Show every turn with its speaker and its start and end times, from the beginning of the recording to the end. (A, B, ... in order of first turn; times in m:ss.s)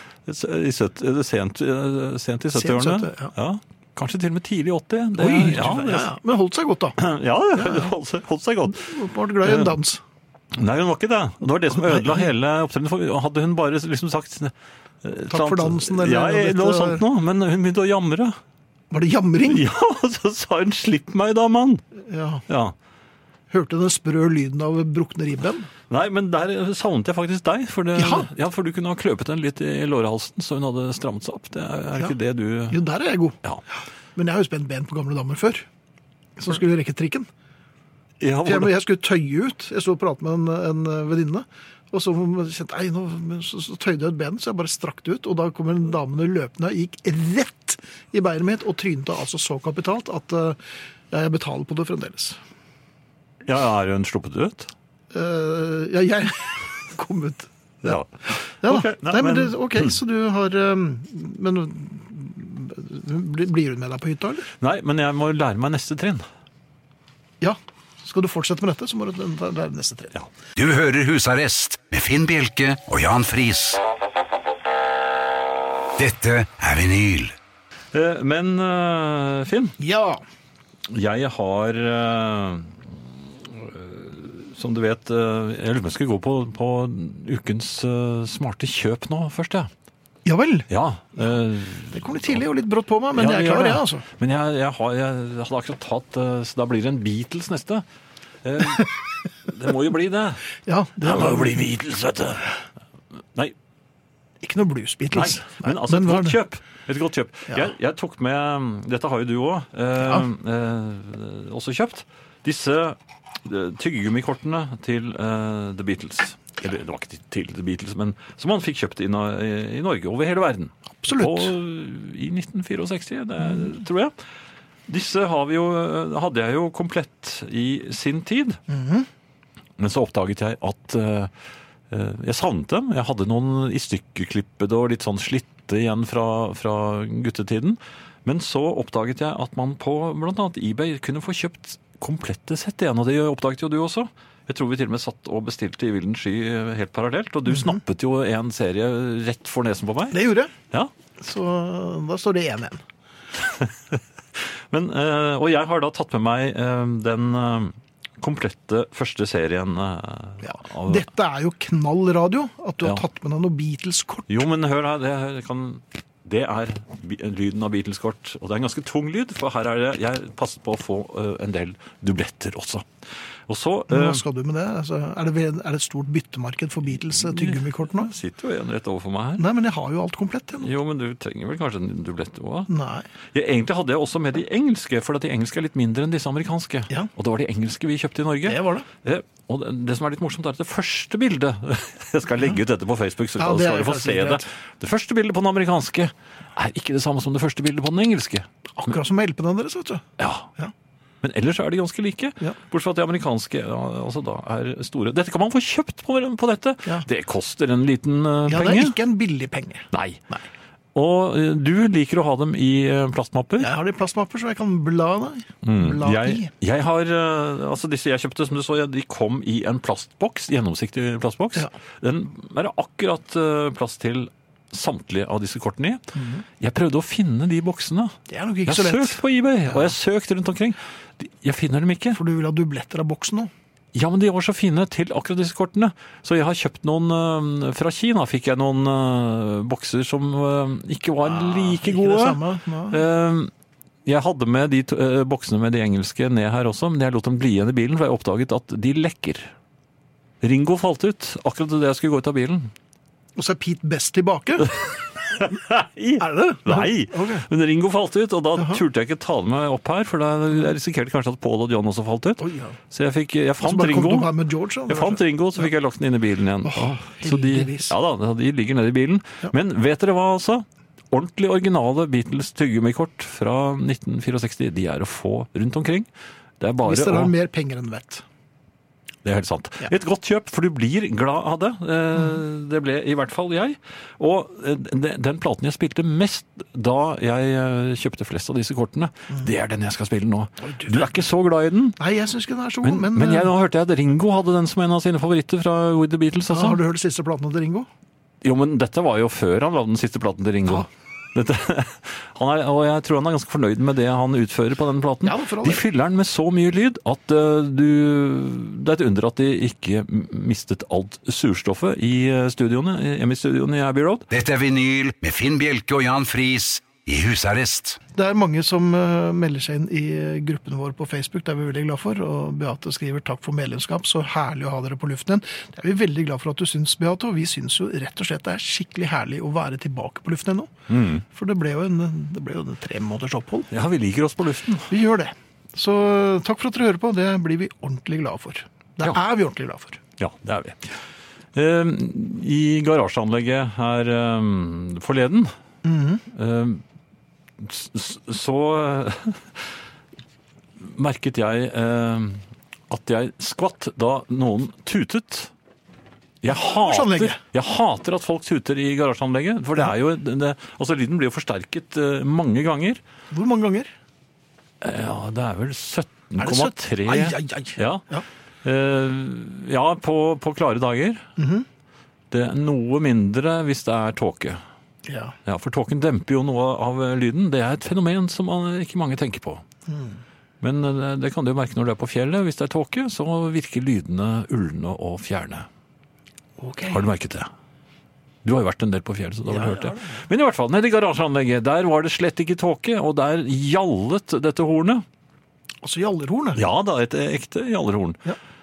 0:00.2-0:06.1 A
0:02.5-0:03.3 B
0:05.2-0:07.0 B
0:07.0-0:08.9 A
0:07.5-0:07.9 B
0:08.7-0:10.0 B
0:09.4-0:09.8 A
0:10.5-0:18.4 A
0:11.8-0:12.3 B
0:15.3-0:17.0 B
0:18.9-0:19.6 B
0:19.5-0:21.8 A
0:22.0-0:22.4 B
0:22.5-0:22.7 A
0:23.5-0:25.7 B
0:25.9-0:32.8 A
0:27.9-0:28.3 B
0:32.7-0:33.4 B
0:34.2-0:35.6 B
0:36.4-0:37.3 B
0:38.2-0:38.7 A
0:38.4-0:50.6 B
0:51.1-0:52.4 B
0:53.4-0:54.7 A
0:55.1-1:04.5 B
0:57.8-0:58.1 A
0:58.6-0:59.9 A
1:04.6-1:06.2 A
1:07.4-1:10.1 B
1:10.6-1:13.8 C
1:16.0-1:17.3 C
1:17.9-1:19.8 A
1:19.8-1:20.2 B
1:20.9-1:29.7 A
1:30.2-1:30.7 B
1:30.7-1:32.4 A
1:31.9-1:34.0 B
1:33.2-1:37.8 A
1:38.4-1:40.5 A
1:40.6-1:41.7 B
1:41.0-1:42.5 A
1:44.4-1:46.4 B
1:45.1-2:04.1 A
2:00.9-2:01.5 B
2:04.9-2:08.6 A
2:08.7-2:09.1 B
2:09.8-2:11.3 A
2:11.9-2:30.2 A
2:27.5-2:27.8 B
2:30.1-2:30.5 B
2:31.2-2:32.8 B
2:33.4-2:41.0 A
2:40.4-2:44.3 B
2:44.3-2:52.9 A
2:53.5-2:54.2 A
2:53.9-2:58.1 B
2:57.0-2:59.4 A
2:59.4-3:00.7 B
3:00.6-3:02.7 A
3:02.7-3:03.0 B
3:03.3-3:18.5 A
3:08.4-3:08.8 B
3:13.4-3:14.4 B
3:18.8-3:20.0 B
3:20.2-3:20.5 A
3:21.2-3:29.0 A
3:28.5-3:30.4 B
3:29.9-3:30.2 A
3:30.9-3:33.7 A
3:33.6-3:36.5 B
3:35.6-3:46.0 A
3:46.1-3:46.4 B
3:46.6-3:52.2 A
3:48.3-3:49.9 B
3:52.1-3:53.5 B
3:53.9-4:03.5 A
4:01.2-4:03.0 B
4:04.0-4:09.5 A
4:10.4-4:12.7 A
4:13.4-4:14.8 B
4:15.3-4:24.3 A
4:16.2-4:17.5 B
4:18.6-4:18.8 B
4:22.4-4:22.8 B
4:23.6-4:25.7 B
4:24.9-4:36.1 A
4:26.6-4:27.9 B
4:36.6-4:37.3 A
4:36.8-4:38.2 B
4:39.2-4:52.0 A
4:50.6-4:51.1 B
4:52.0-4:53.5 B
4:52.8-4:56.8 A
4:56.5-4:57.9 B
4:58.4-5:14.3 A
5:05.2-5:05.8 B
5:14.3-5:18.0 C
5:18.1-5:30.7 B
5:30.9-5:31.2 A
5:31.2-5:33.7 B
5:33.7-5:34.9 A
5:34.9-5:40.0 B
5:40.2-5:40.9 A
5:41.5-5:45.5 A
5:45.8-5:46.2 B
5:46.3-5:46.8 A
5:47.6-5:49.7 A
5:50.8-5:55.5 A
5:56.4-6:03.0 A
5:56.5-5:57.4 B
6:03.3-6:03.9 B
6:04.8-6:08.0 A
6:06.4-6:08.2 B
6:08.6-6:11.2 A
6:11.4-6:11.6 B
6:12.3-6:14.6 A
6:15.0-6:15.3 B
6:15.4-6:19.6 A
6:19.9-6:20.2 B
6:20.6-6:25.6 A
6:26.6-6:27.1 B
6:26.9-6:27.5 A
6:28.4-6:35.0 A
6:29.5-6:30.2 B
6:35.8-6:36.6 B
6:36.6-6:38.2 A